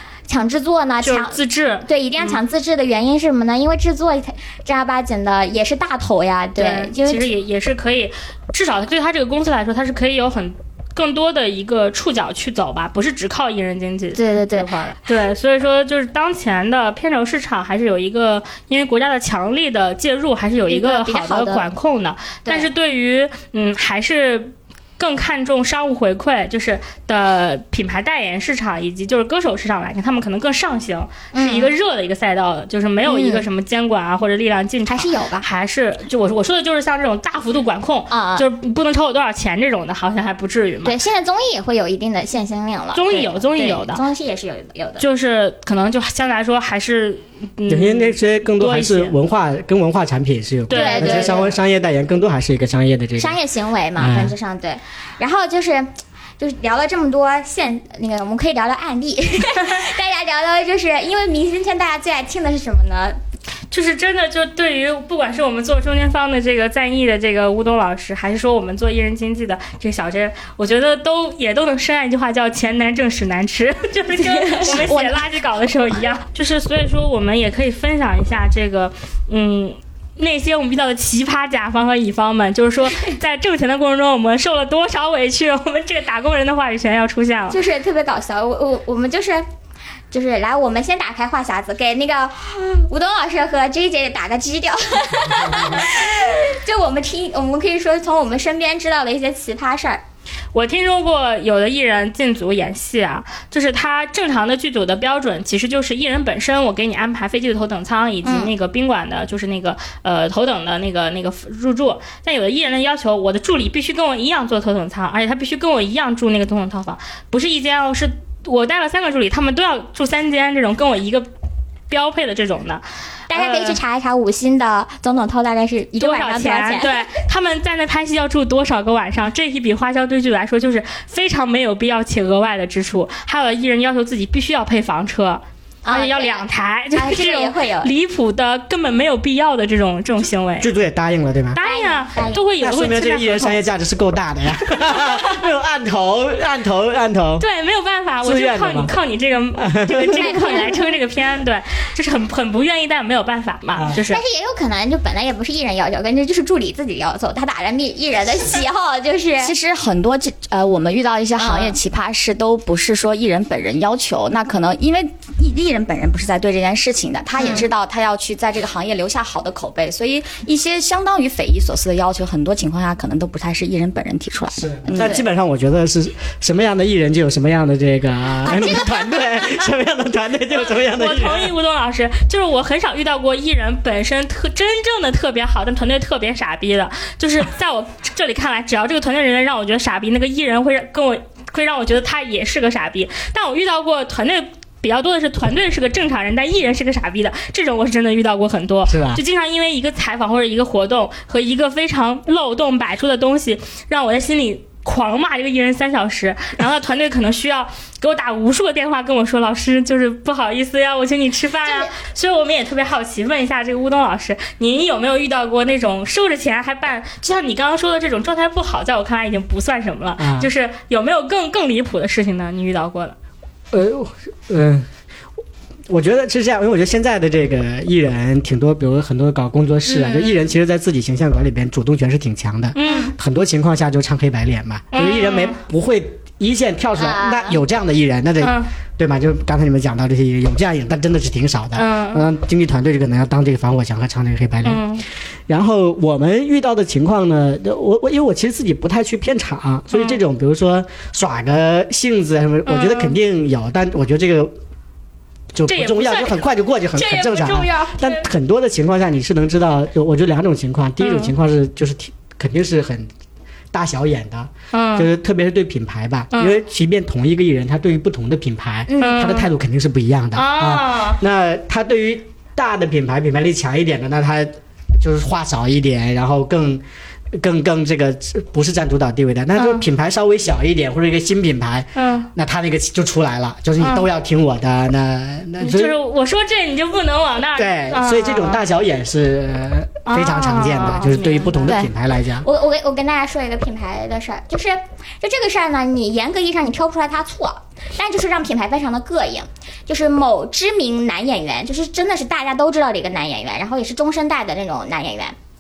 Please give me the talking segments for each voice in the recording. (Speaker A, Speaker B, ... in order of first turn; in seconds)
Speaker A: 0.3-7.3, 14.2-15.0, 20.7-21.7, 31.3-31.7, 33.1-33.5, 34.9-35.5, 38.1-38.5, 40.9-45.0, 50.7-51.5, 53.2-63.2, 74.2-75.2, 87.5-89.5, 90.1-100.0, 108.2-108.5, 123.3-127.0, 135.8-137.9, 141.6-142.4, 150.2-150.9, 154.1-159.5, 161.4-161.8, 167.4-167.7, 178.4-179.6, 211.7-211.9, 232.8-233.1, 237.0-237.6, 268.9-269.2, 292.4-305.4
Speaker B: 1.0-2.4, 6.6-41.0, 43.0-44.0, 45.0-49.1, 50.7-51.5, 63.7-87.6, 100.5-121.3, 121.9-123.8, 126.0-140.7, 141.5-143.6, 147.4-154.2, 180.5-223.2, 229.9-230.4, 232.8-233.1, 234.9-235.6, 238.4-238.7, 241.8-242.2, 244.6-245.0, 249.9-250.2, 252.7-253.2, 255.7-258.3, 261.0-261.3, 264.7-265.1, 266.3-266.6, 269.0-269.5, 270.3-271.2, 279.6-279.9, 281.9-282.3, 283.8-284.1, 285.6-288.6, 290.1-291.8
Speaker C: 47.7-53.4, 54.0-54.3, 140.6-141.6, 142.6-147.4, 148.2-148.9, 149.6-150.6, 153.8-154.0, 174.6-181.5, 198.9-199.2, 220.2-220.5, 223.7-224.9, 225.9-244.8, 245.5-254.5, 255.5-263.1, 263.7-276.8, 277.4-286.0, 287.6-292.5
Speaker D: 159.4-175.3